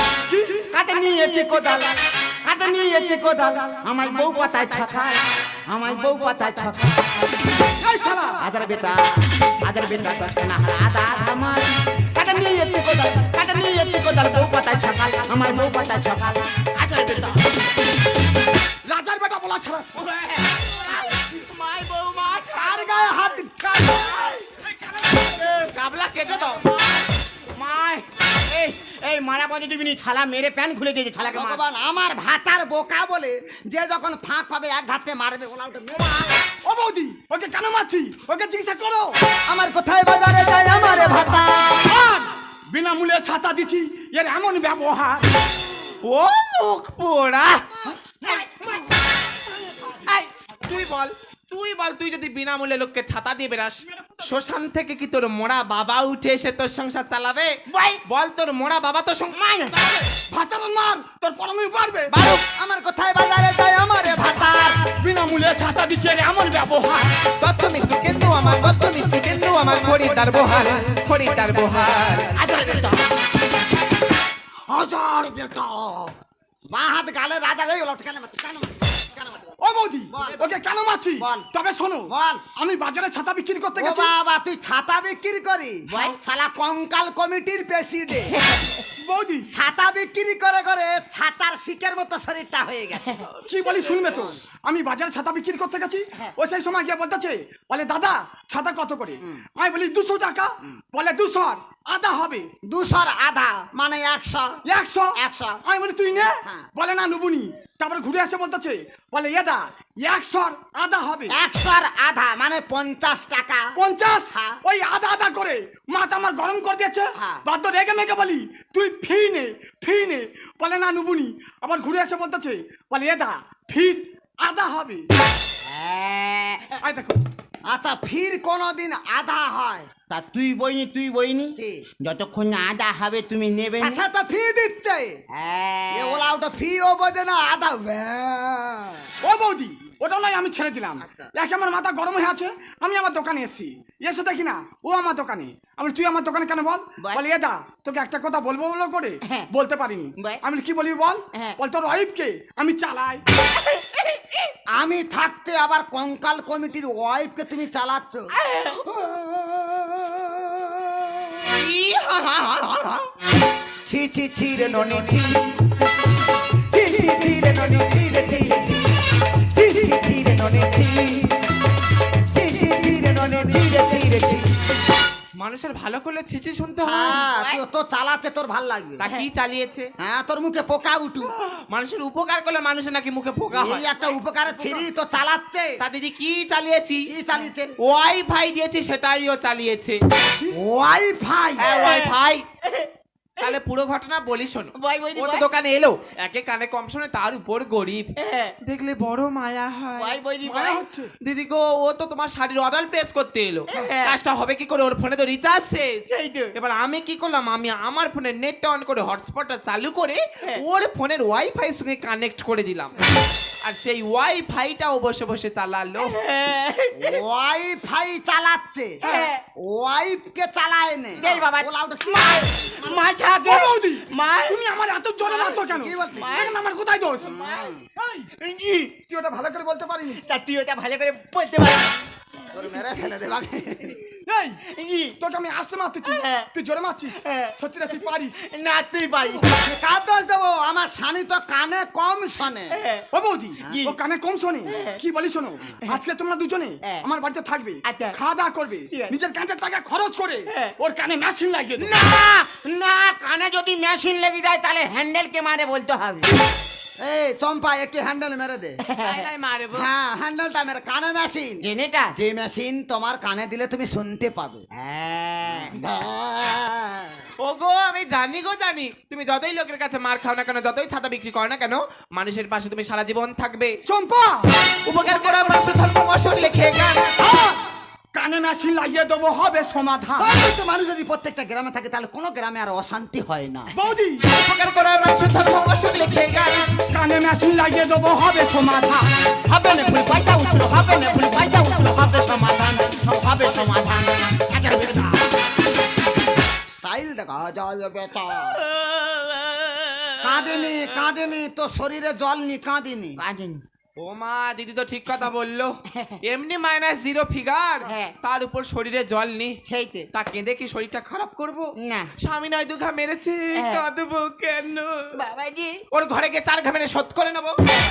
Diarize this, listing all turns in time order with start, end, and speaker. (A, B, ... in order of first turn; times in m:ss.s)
0:00.3-0:00.7 A
0:00.7-0:07.0 B
0:07.8-0:08.5 A
0:08.4-0:17.4 B
0:18.8-0:19.9 A
0:20.0-0:23.3 B
0:22.5-0:24.1 C
0:23.6-0:25.2 A
0:25.1-0:25.7 B
0:25.7-0:26.6 D
0:26.4-0:31.6 B
0:31.2-0:36.4 C
0:36.6-0:39.2 A
0:39.5-0:42.0 C
0:41.0-0:41.2 A
0:41.8-0:45.3 A
0:46.0-0:47.7 D
0:50.0-0:59.4 D
0:57.7-0:58.0 B
0:59.3-0:59.8 B
1:00.0-1:02.1 A
1:02.1-1:02.5 D
1:02.6-1:04.9 C
1:05.0-1:07.2 A
1:07.4-1:12.4 D
1:09.8-1:10.8 C
1:12.4-1:13.0 B
1:14.7-1:16.1 C
1:16.7-1:19.6 C
1:19.6-1:24.1 A
1:20.1-1:20.5 C
1:21.2-1:21.5 C
1:22.1-1:22.4 C
1:23.8-1:28.4 C
1:25.9-1:26.2 B
1:29.0-1:29.5 A
1:29.5-1:33.2 C
1:33.3-1:34.3 D
1:33.5-1:42.5 A
1:42.7-1:44.6 C
1:44.7-1:51.4 A
1:45.2-1:45.6 C
1:46.4-1:46.7 C
1:51.3-1:53.7 C
1:53.8-2:05.1 A
1:54.3-1:54.6 C
1:57.2-1:57.4 C
2:05.7-2:06.8 B
2:06.8-2:07.2 A
2:07.7-2:09.9 C
2:10.1-2:14.0 B
2:11.6-2:11.8 C
2:13.8-2:15.2 C
2:15.3-2:16.3 B
2:15.9-2:19.1 C
2:19.2-2:33.2 A
2:21.0-2:21.3 C
2:33.6-2:34.5 B
2:34.7-2:38.3 C
2:38.4-2:38.8 B
2:38.9-2:41.3 C
2:41.5-2:43.1 D
2:43.9-2:45.4 C
2:46.7-2:48.9 C
2:49.5-2:51.3 C
2:52.3-2:54.4 C
2:55.4-2:57.2 D
2:56.8-2:59.1 C
2:57.0-2:57.6 B
2:59.0-2:59.9 D
3:00.0-3:01.3 C
3:01.7-3:03.9 D
3:03.5-3:05.8 C
3:04.6-3:04.8 D
3:05.8-3:07.1 D
3:07.1-3:07.7 C
3:07.8-3:10.0 D
3:10.5-3:11.7 C
3:11.6-3:12.4 D
3:11.6-3:13.6 B
3:13.4-3:18.1 D
3:14.8-3:15.5 B
3:18.2-3:18.6 B
3:18.6-3:20.2 D
3:20.0-3:20.8 B
3:20.4-3:21.1 A
3:21.2-3:33.0 D
3:23.7-3:24.2 B
3:26.1-3:26.5 B
3:33.6-3:36.2 D
3:36.0-3:37.2 B
3:37.0-3:39.0 C
3:39.0-3:39.4 B
3:39.6-3:42.5 C
3:41.2-3:44.6 B
3:43.5-3:47.3 A
3:45.2-3:45.6 B
3:45.6-3:46.5 C
3:46.2-3:46.6 B
3:47.2-3:47.8 C
3:47.2-3:47.7 B
3:48.0-3:48.3 A
3:48.4-3:49.0 B
3:49.1-3:50.2 A
3:50.1-3:52.0 B
3:52.5-3:54.0 C
3:54.3-3:54.6 A
3:54.7-3:55.2 B
3:55.2-3:58.4 A
3:56.0-3:56.5 B
3:57.3-3:59.5 B
3:59.5-4:02.8 C
4:02.7-4:03.0 B
4:03.1-4:12.0 A
4:03.7-4:04.0 B
4:04.7-4:05.0 B
4:07.9-4:08.2 B
4:11.8-4:16.3 B
4:17.0-4:18.8 C
4:18.9-4:19.3 B
4:19.0-4:19.9 D
4:19.7-4:21.6 C
4:21.6-4:22.1 B
4:22.1-4:24.6 C
4:24.8-4:25.8 B
4:25.5-4:27.1 C
4:27.4-4:33.7 D
4:33.9-4:34.5 A
4:34.8-4:37.1 D
4:35.1-4:35.6 A
4:37.2-4:37.6 A
4:38.2-4:40.3 A
4:40.2-4:43.7 C
4:43.7-4:44.2 A
4:44.3-4:46.7 D
4:46.8-4:49.1 A
4:49.5-4:55.2 B
4:56.8-4:58.6 C
4:58.6-5:00.6 B
5:00.2-5:03.2 C
5:03.2-5:03.6 B
5:04.0-5:09.6 D
5:05.9-5:06.2 B
5:07.8-5:08.2 B
5:09.7-5:10.1 B
5:10.1-5:15.2 D
5:11.8-5:12.1 B
5:13.6-5:13.8 B
5:15.2-5:15.8 B
5:15.9-5:17.8 D